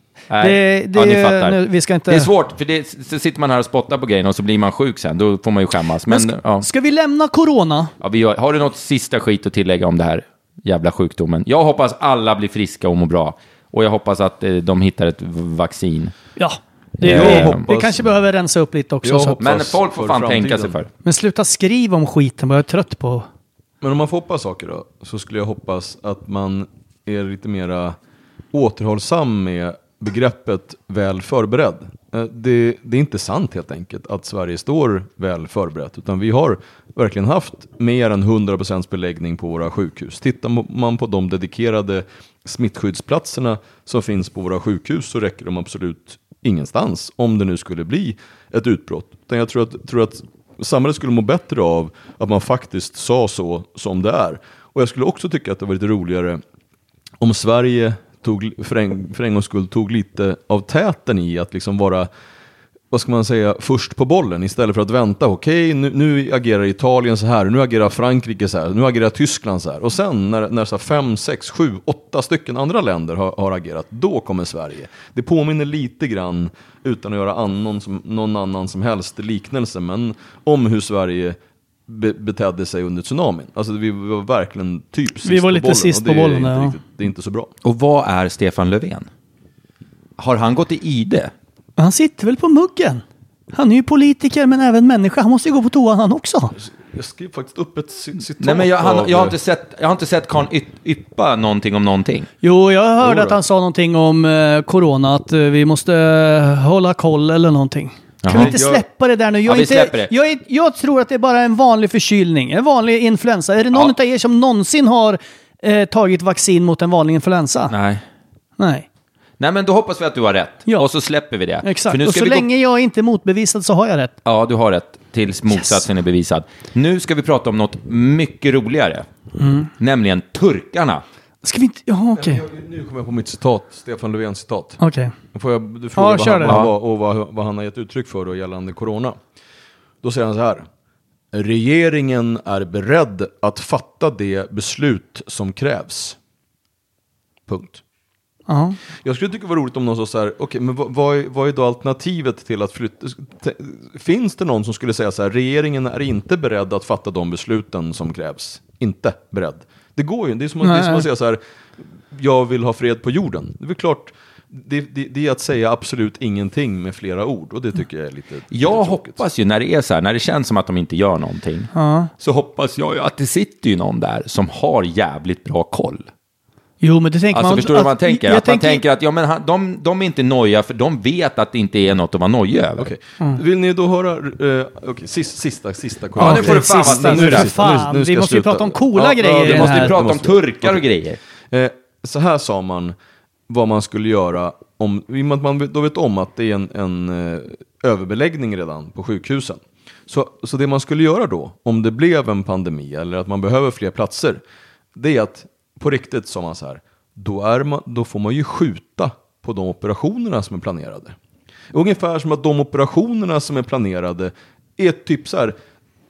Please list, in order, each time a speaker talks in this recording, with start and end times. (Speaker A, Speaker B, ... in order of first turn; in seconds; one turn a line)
Speaker A: 0.3-6.7
Speaker B: 0.4-2.3
Speaker B: 6.1-7.9
Speaker A: 8.0-16.1
Speaker B: 16.4-19.4
Speaker A: 17.0-17.6
Speaker C: 17.1-18.1
Speaker C: 19.0-20.8
Speaker A: 19.4-20.9
Speaker B: 21.1-23.3
Speaker C: 23.8-27.9
Speaker C: 28.5-56.4
Speaker C: 57.2-62.1
Speaker C: 62.9-81.4
Speaker C: 81.9-87.5
Speaker B: 85.2-86.8
Speaker A: 87.6-89.1
Speaker A: 90.2-91.3
Speaker B: 91.8-96.5
Speaker C: 96.5-99.4
Speaker A: 98.4-102.3
Speaker B: 102.4-117.7
Speaker C: 103.0-103.4
Speaker A: 108.2-108.8
Speaker C: 108.3-108.8
Speaker A: 109.5-110.1
Speaker A: 117.7-118.0
Speaker B: 118.6-118.9
Speaker A: 119.4-122.5
Speaker B: 121.6-124.1
Speaker A: 124.2-129.1
Speaker B: 129.4-129.7
Speaker A: 129.8-131.0
Speaker B: 131.4-132.4
Speaker C: 132.1-134.8
Speaker B: 134.8-135.1
Speaker C: 135.3-139.2
Speaker B: 136.0-136.6
Speaker A: 136.4-136.7
Speaker C: 140.0-140.7
Speaker C: 141.3-146.2
Speaker C: 147.5-147.8
Speaker B: 148.5-148.8
Speaker C: 149.0-161.4
Speaker B: 160.6-161.1
Speaker C: 162.1-169.2
Speaker A: 168.5-176.1
Speaker B: 171.7-172.1
Speaker B: 176.8-178.8
Speaker A: 177.3-182.9
Speaker C: 182.8-190.8
Speaker A: 186.2-187.7
Speaker B: 186.2-189.9
Speaker A: 189.4-191.2
Speaker C: 191.5-192.9
Speaker C: 193.5-204.4
Speaker C: 204.9-211.2
Speaker C: 211.7-215.6